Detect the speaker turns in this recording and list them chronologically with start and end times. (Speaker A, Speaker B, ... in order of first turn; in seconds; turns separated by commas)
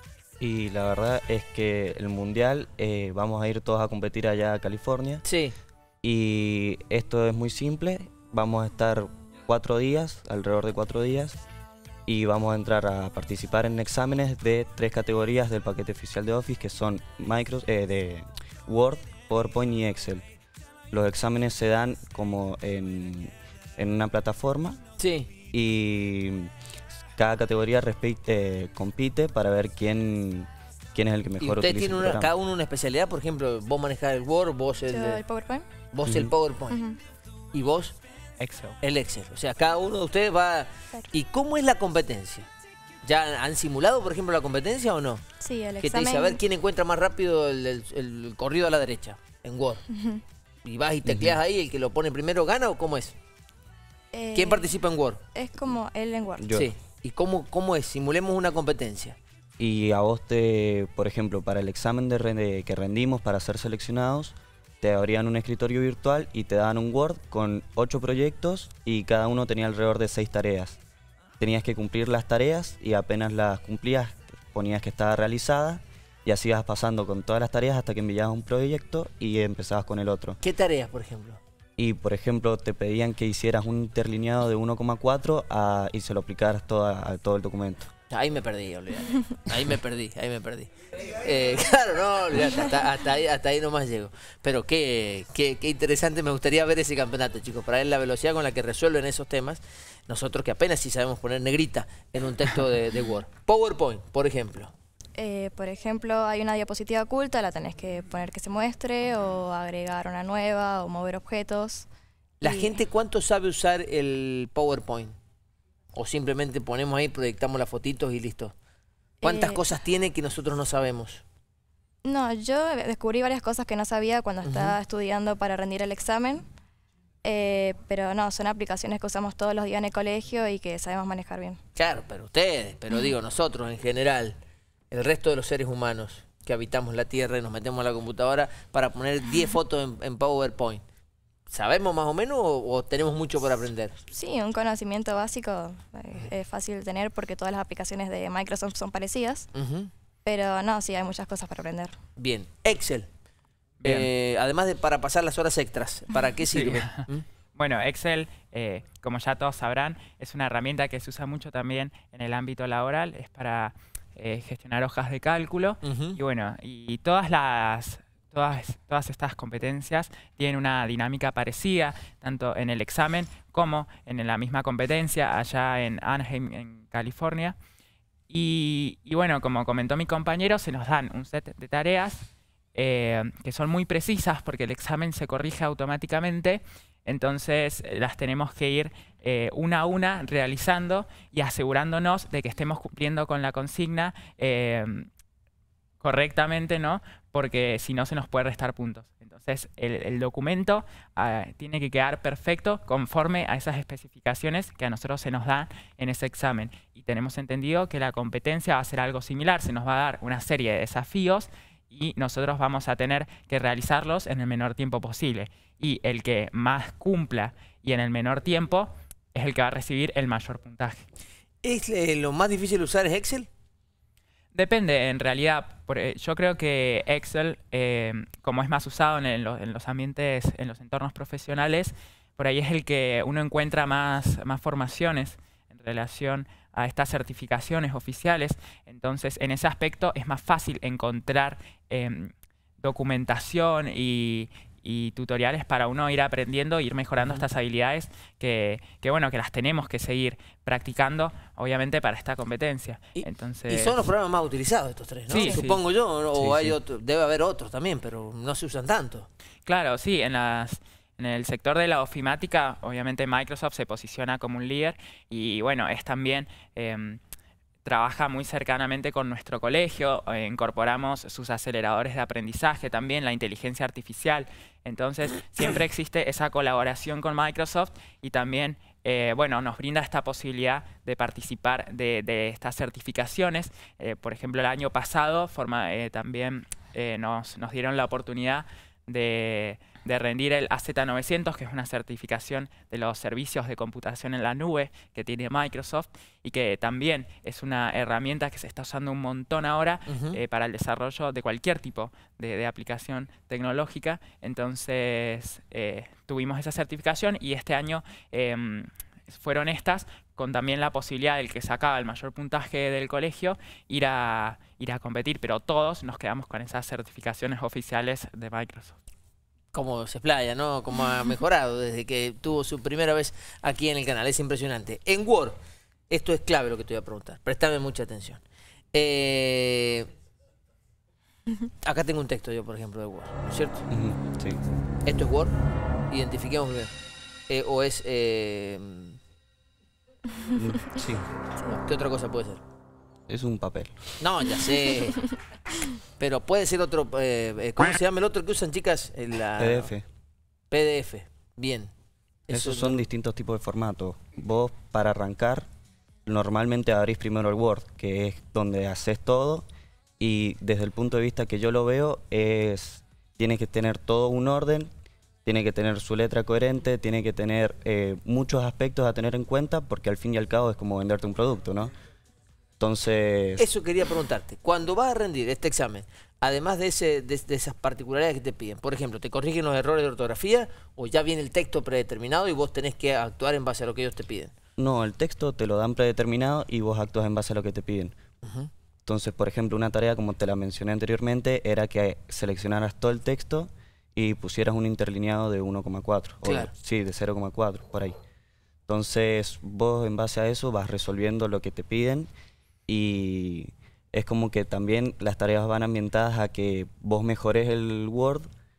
Speaker A: 0.4-5.2, Speaker B: 5.2-5.5, Speaker A: 6.0-11.4, Speaker A: 12.1-20.2, Speaker A: 20.9-24.8, Speaker B: 25.0-25.3, Speaker A: 25.5-26.5, Speaker A: 27.1-32.3, Speaker B: 31.4-35.2, Speaker C: 34.9-35.7, Speaker B: 35.9-36.8, Speaker A: 36.0-36.3, Speaker C: 36.7-37.0, Speaker B: 37.5-38.0, Speaker D: 38.4-38.8, Speaker B: 38.8-42.5, Speaker B: 43.0-45.2, Speaker C: 45.4-46.4, Speaker B: 45.8-49.8, Speaker C: 49.9-50.2, Speaker B: 50.6-53.1, Speaker A: 51.0-51.4, Speaker C: 54.1-54.7, Speaker B: 54.3-55.2, Speaker C: 55.3-56.5, Speaker A: 56.4-56.7, Speaker B: 56.5-59.2, Speaker A: 59.6-70.8, Speaker A: 71.4-80.4, Speaker B: 80.4-81.4, Speaker A: 81.8-87.9, Speaker B: 88.1-104.7, Speaker C: 105.2-111.9, Speaker B: 112.4-115.2, Speaker C: 112.4-112.8, Speaker B: 115.9-118.5, Speaker C: 119.2-119.6, Speaker B: 119.2-121.2, Speaker C: 122.0-126.4, Speaker B: 124.4-124.8, Speaker C: 127.2-131.6, Speaker B: 131.7-134.4, Speaker B: 134.9-140.8, Speaker B: 141.5-144.0, Speaker C: 144.1-149.5, Speaker B: 149.5-149.9, Speaker C: 150.2-151.9, Speaker B: 152.2-153.1, Speaker D: 153.8-154.1, Speaker B: 153.8-157.2, Speaker D: 156.5-177.6, Speaker B: 165.8-166.2, Speaker D: 178.3-195.1, Speaker D: 196.0-221.0, Speaker B: 221.6-223.5, Speaker D: 224.5-254.1, Speaker B: 247.2-247.4, Speaker B: 253.2-259.3, Speaker D: 255.3-255.8, Speaker C: 255.3-255.6, Speaker A: 256.3-256.8, Speaker D: 259.6-267.2, Speaker D: 267.8-319.0, Speaker B: 300.1-300.4, Speaker B: 319.7-325.6, Speaker B: 326.1-328.4, Speaker B: 328.9-330.1, Speaker B: 331.8-333.9, Speaker A: 333.9-334.6, Speaker B: 335.1-335.5, Speaker B: 336.1-336.9, Speaker B: 337.5-339.2, Speaker A: 340.5-341.2, Speaker B: 341.7-342.6, Speaker A: 343.3-344.5, Speaker B: 344.2-345.2, Speaker B: 346.2-349.9, Speaker A: 349.6-350.1, Speaker B: 350.7-351.9, Speaker B: 352.5-353.0, Speaker A: 352.5-355.7, Speaker A: 356.2-359.6, Speaker A: 360.2-364.9, Speaker A: 365.4-371.9, Speaker A: 372.8-373.6, Speaker B: 373.6-384.5, Speaker A: 384.8-388.1, Speaker B: 388.4-388.7, Speaker A: 389.1-398.1, Speaker B: 396.4-396.7, Speaker A: 398.9-402.3, Speaker A: 402.9-408.5